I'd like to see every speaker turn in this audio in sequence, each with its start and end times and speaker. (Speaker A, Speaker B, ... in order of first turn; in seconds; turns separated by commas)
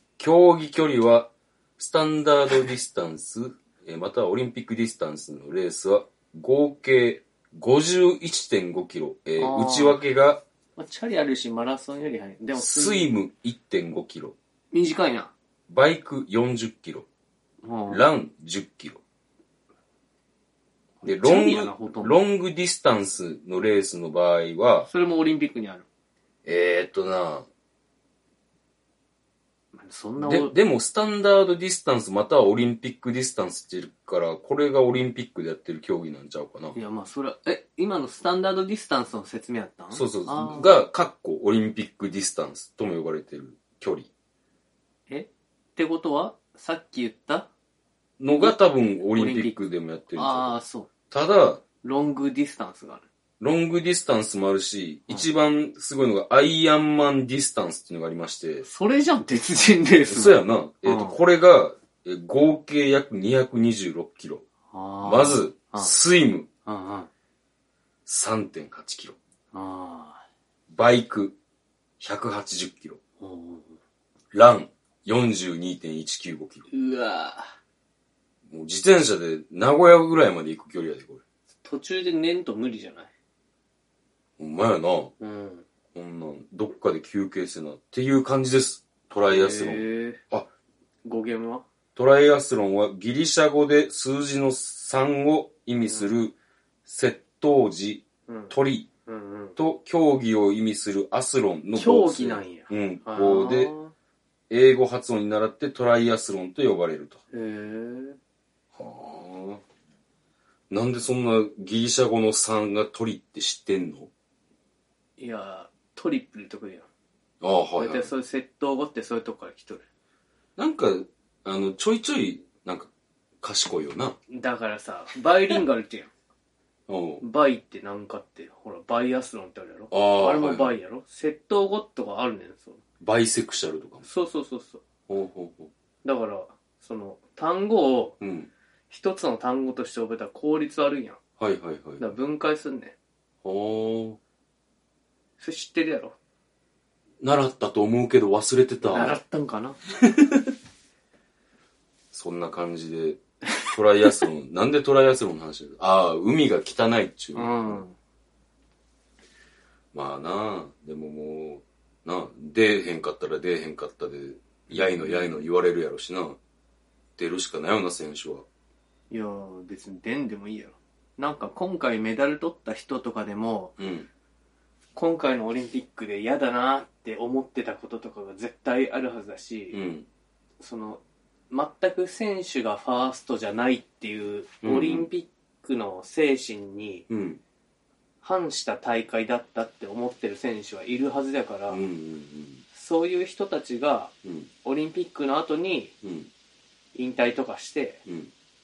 Speaker A: 0.2-10.4, Speaker B: 9.4-10.0, Speaker B: 10.8-13.1, Speaker A: 12.6-14.3, Speaker B: 14.7-15.3, Speaker A: 15.7-17.1, Speaker B: 17.6-18.0, Speaker A: 17.9-19.0, Speaker B: 21.0-22.1, Speaker A: 21.0-24.9, Speaker B: 24.9-25.9, Speaker A: 26.4-27.5, Speaker B: 29.7-30.5, Speaker A: 30.2-36.8, Speaker B: 36.7-40.7, Speaker A: 39.9-44.1, Speaker B: 45.1-47.5, Speaker A: 48.2-50.5, Speaker B: 48.3-49.6, Speaker B: 50.1-50.9, Speaker A: 51.1-51.6, Speaker B: 51.8-53.0, Speaker A: 53.4-58.6, Speaker B: 58.6-61.2, Speaker A: 60.1-64.4, Speaker B: 64.7-65.9, Speaker A: 65.0-66.5, Speaker B: 66.6-67.1, Speaker A: 68.0-69.2, Speaker B: 69.5-70.2, Speaker A: 70.7-71.3, Speaker A: 72.0-73.0, Speaker B: 73.2-73.8, Speaker A: 74.3-76.7, Speaker B: 76.7-77.5, Speaker A: 78.5-81.2, Speaker B: 81.6-83.1, Speaker A: 84.4-85.1, Speaker B: 85.2-85.7, Speaker A: 85.9-90.5, Speaker B: 89.3-90.2, Speaker B: 91.0-91.6, Speaker A: 92.0-96.3, Speaker B: 95.8-96.1, Speaker A: 96.8-98.9, Speaker B: 98.3-98.5, Speaker B: 99.0-99.6, Speaker A: 99.6-103.7, Speaker B: 101.8-103.9, Speaker A: 104.5-107.2, Speaker B: 107.3-108.2, Speaker A: 108.7-109.6, Speaker A: 110.7-114.1, Speaker B: 115.2-116.9, Speaker A: 117.4-118.1, Speaker B: 117.8-119.8, Speaker A: 120.6-122.9, Speaker A: 123.4-124.2, Speaker B: 124.3-126.1, Speaker A: 126.9-127.2, Speaker B: 127.2-132.8, Speaker A: 129.9-130.7, Speaker A: 133.0-134.1, Speaker B: 134.0-134.8, Speaker A: 135.1-135.7, Speaker B: 136.0-138.2, Speaker A: 138.2-138.5, Speaker B: 138.9-141.2, Speaker A: 141.4-142.1, Speaker B: 142.0-142.9, Speaker A: 143.4-144.2, Speaker B: 145.4-146.2, Speaker A: 147.2-149.2, Speaker B: 148.8-149.8, Speaker A: 150.0-150.5, Speaker A: 152.1-157.8, Speaker B: 157.3-157.9, Speaker A: 159.9-166.4, Speaker B: 164.7-165.3, Speaker A: 167.2-168.4, Speaker B: 169.1-173.7, Speaker A: 173.8-174.1, Speaker B: 174.9-179.8, Speaker A: 179.7-180.1, Speaker B: 180.6-187.1, Speaker A: 184.6-185.1, Speaker A: 187.1-187.4, Speaker B: 188.2-191.8, Speaker A: 191.7-192.6, Speaker B: 192.7-195.9, Speaker A: 194.2-194.5, Speaker A: 196.0-196.3, Speaker B: 196.9-198.0